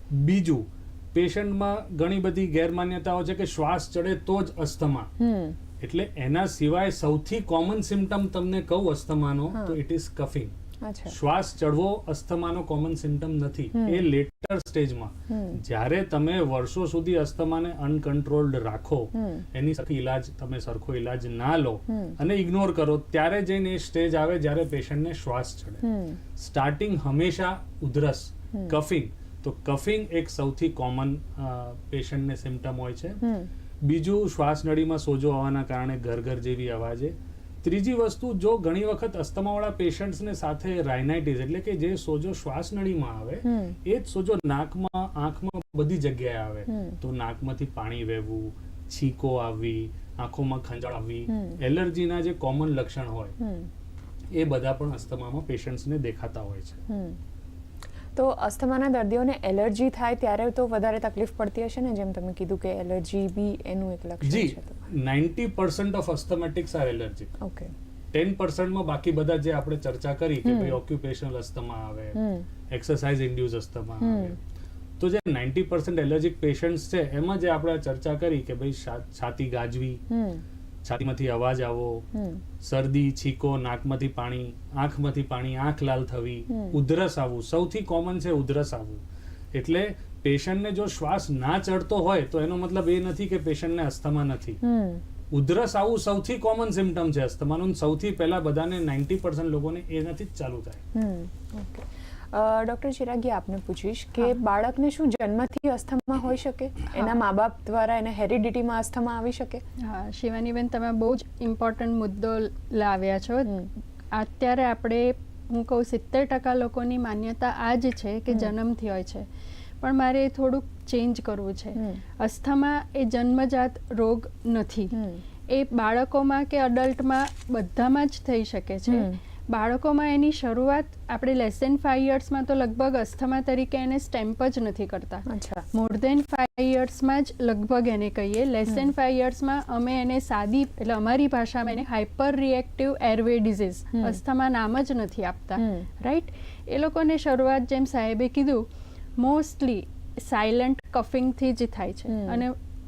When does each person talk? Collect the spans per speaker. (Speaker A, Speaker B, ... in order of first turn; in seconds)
Speaker A: 0.1-5.1, 5.8-10.5, 11.1-25.9, 26.4-33.2, 33.8-53.4, 54.3-56.8, 64.2-67.3, 68.1-74.4, 75.0-80.0, 80.8-82.0, 82.6-89.0, 89.5-94.6, 95.3-100.8
Speaker B: 5.2-5.6, 10.8-11.2, 13.8-14.1, 15.3-15.6, 19.1-19.4, 21.9-22.2, 25.8-26.2, 33.2-33.5, 43.4-43.8, 46.7-47.0, 51.3-51.6, 53.4-53.7, 56.9-57.2, 58.2-64.9, 67.4-67.7, 70.4-70.8, 72.2-72.5, 74.0-74.4, 80.1-80.4, 82.1-82.4, 86.5-86.8, 94.6-95.0, 100.9-109.6, 121.8-122.0, 124.9-125.2, 128.9-129.2, 135.3-135.7, 145.6-145.9, 152.1-152.4
Speaker C: 109.8-113.5, 114.1-119.3, 119.8-124.9, 125.5-148.7, 149.2-152.5